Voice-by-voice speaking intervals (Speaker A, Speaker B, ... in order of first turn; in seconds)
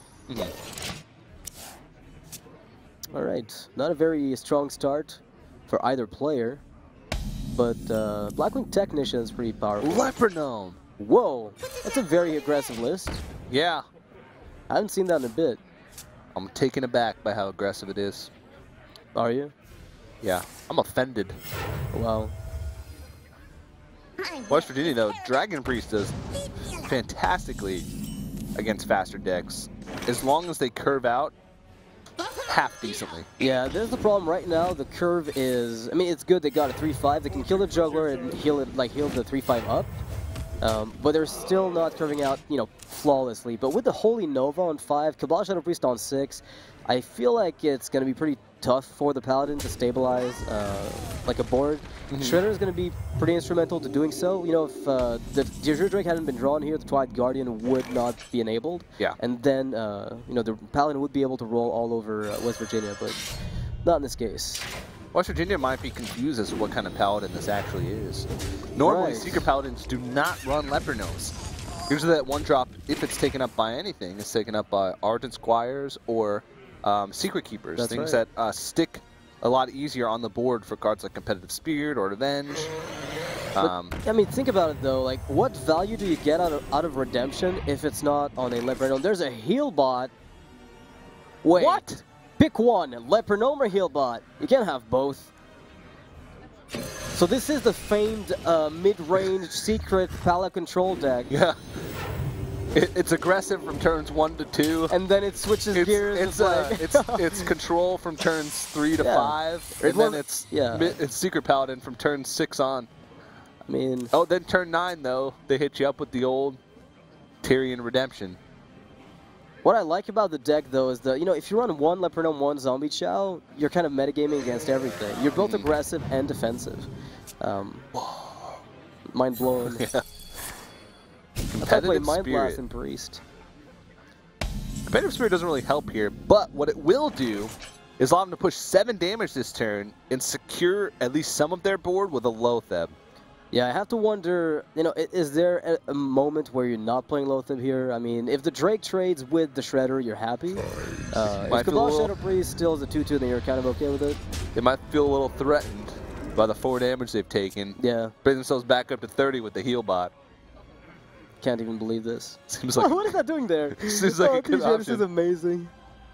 Speaker A: 3.1-6.6, 7.5-10.1, 11.0-13.2, 14.7-15.6, 19.1-19.5, 21.9-22.3, 33.4-39.9, 40.6-63.2, 63.8-64.7, 68.8-69.5, 77.8-78.2, 83.6-90.1, 91.4-91.9, 92.4-95.3, 97.1-101.3, 104.9-107.5, 109.0-110.9, 113.7-114.1, 119.6-126.9, 127.4-127.9, 129.1-129.8, 131.6-133.2, 143.5-154.2, 157.8-158.1, 161.4-165.7
Speaker B: 9.8-10.8, 13.5-13.8, 16.4-18.3, 20.2-21.4, 24.4-26.1, 26.7-27.9, 28.6-31.3, 32.4-33.3, 52.1-52.4, 65.1-71.3, 71.9-82.7, 83.5-84.0, 91.5-92.0, 101.3-101.6, 102.7-104.9, 105.7-112.9, 114.1-116.6, 117.4-118.4, 125.4-125.7, 128.0-128.6, 129.6-130.0, 131.5-132.6, 134.9-142.9, 151.5-152.1, 154.5-160.1, 162.5-163.1, 163.7-165.1